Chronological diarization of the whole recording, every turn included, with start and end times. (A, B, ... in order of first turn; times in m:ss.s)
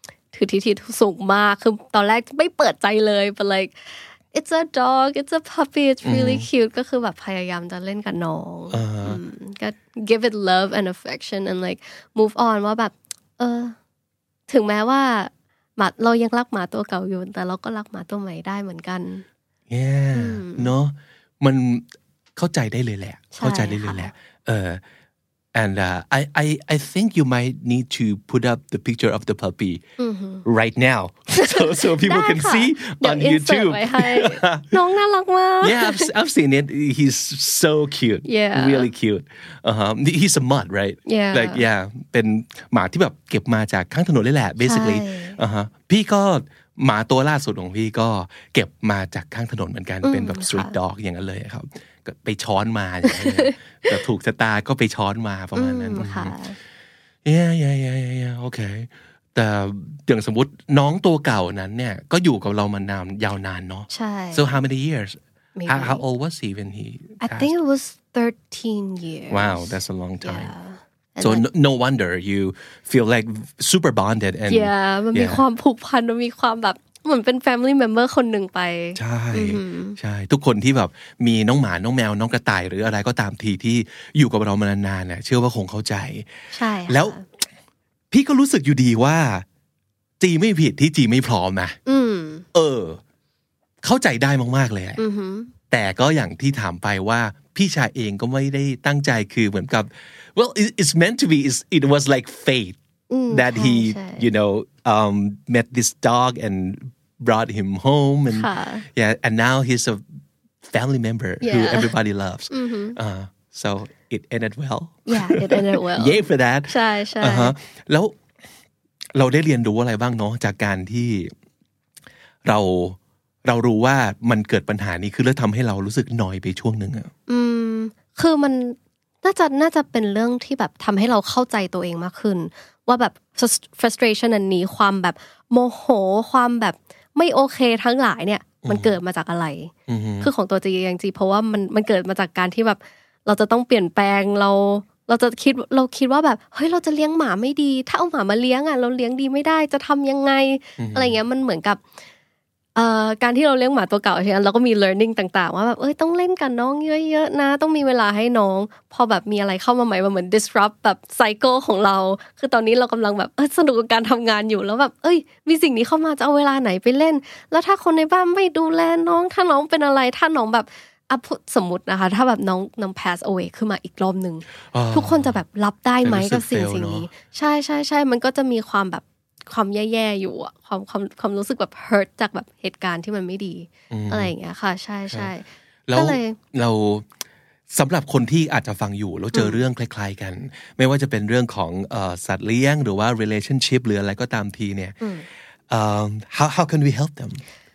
0:00.3-0:13.8 A
0:06.0-0:06.5 B
0:08.7-0:09.2 B
0:14.5-0:19.2 A
0:19.7-0:24.8 B
0:20.1-0:20.7 A
0:23.3-0:24.1 A
0:25.5-0:29.8 B
0:30.0-0:30.4 A
0:30.4-0:34.7 B
0:31.4-0:36.1 A
0:35.6-0:56.4 B
0:38.2-0:38.9 A
0:41.1-0:41.6 A
0:44.6-0:45.4 A
0:50.0-0:50.8 A
0:53.0-0:54.0 A
0:55.5-0:56.6 A
0:57.2-1:07.5 B
1:03.9-1:04.6 A
1:05.6-1:06.0 A
1:07.2-1:11.5 A
1:09.3-1:10.5 B
1:11.2-1:15.4 B
1:14.5-1:20.0 A
1:19.0-1:26.3 B
1:26.5-1:27.2 A
1:26.9-1:27.2 B
1:28.1-1:29.4 B
1:30.2-1:31.8 B
1:31.8-1:32.4 A
1:32.5-1:33.0 B
1:33.8-1:35.0 B
1:35.0-1:35.5 A
1:35.7-1:42.8 B
1:43.1-1:44.3 A
1:43.3-1:50.0 B
1:48.3-1:48.8 A
1:50.6-1:58.2 B
1:51.4-1:52.0 A
1:52.5-1:53.0 A
1:55.1-1:57.5 A
1:59.1-2:01.3 B
2:02.4-2:07.1 B
2:07.3-2:31.8 A
2:18.6-2:19.0 B
2:19.9-2:20.3 B
2:30.8-2:31.2 B
2:32.8-3:06.4 A
2:54.7-2:55.4 B
2:56.0-2:57.1 B
3:03.9-3:04.3 B
3:05.9-3:07.0 B
3:07.7-3:15.0 B
3:09.3-3:09.6 A
3:15.7-3:17.4 B